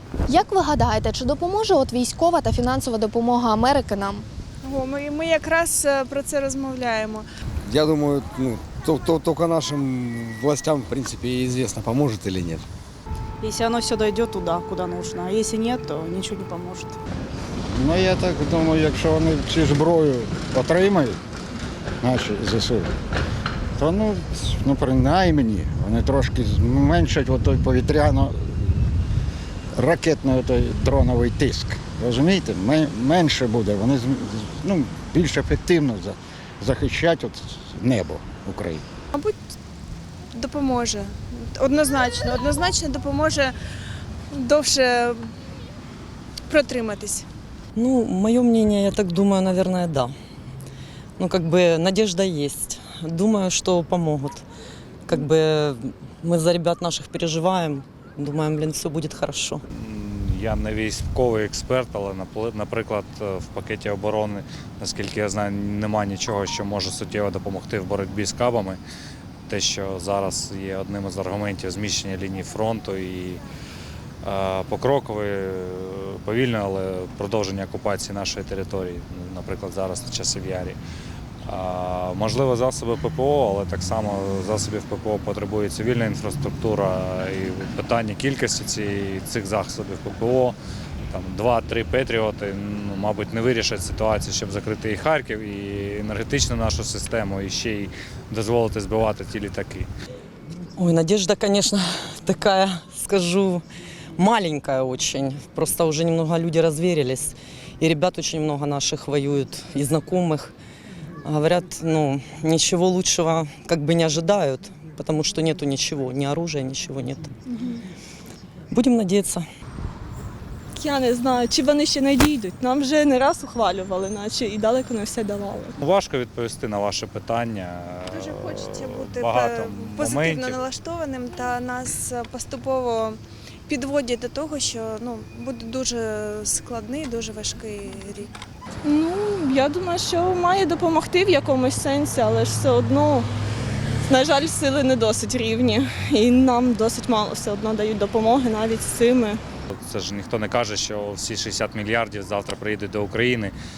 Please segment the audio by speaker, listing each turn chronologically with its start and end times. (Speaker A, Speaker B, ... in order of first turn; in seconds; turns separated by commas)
Speaker A: 0.3-4.2, Speaker B: 4.6-7.3, Speaker C: 7.7-12.6, Speaker D: 13.4-16.9, Speaker E: 17.7-21.2, Speaker E: 22.0-22.9, Speaker E: 23.8-28.6, Speaker E: 29.8-38.8, Speaker B: 40.3-43.5, Speaker B: 44.3-45.3, Speaker B: 46.5-47.3, Speaker F: 47.8-50.1, Speaker F: 51.2-54.5, Speaker F: 55.1-59.6, Speaker G: 59.7-68.8, Speaker G: 69.5-73.4, Speaker G: 74.2-80.8, Speaker G: 81.5-90.6, Speaker G: 91.1-99.9, Speaker F: 100.8-103.6, Speaker F: 104.2-110.5, Speaker F: 111.2-117.3, Speaker F: 118.7-119.4, Speaker H: 120.8-125.7, Speaker G: 125.8-130.7, Speaker B: 128.2-138.3, Speaker H: 138.8-143.3, Speaker H: 144.1-149.4, Speaker G: 149.7-153.5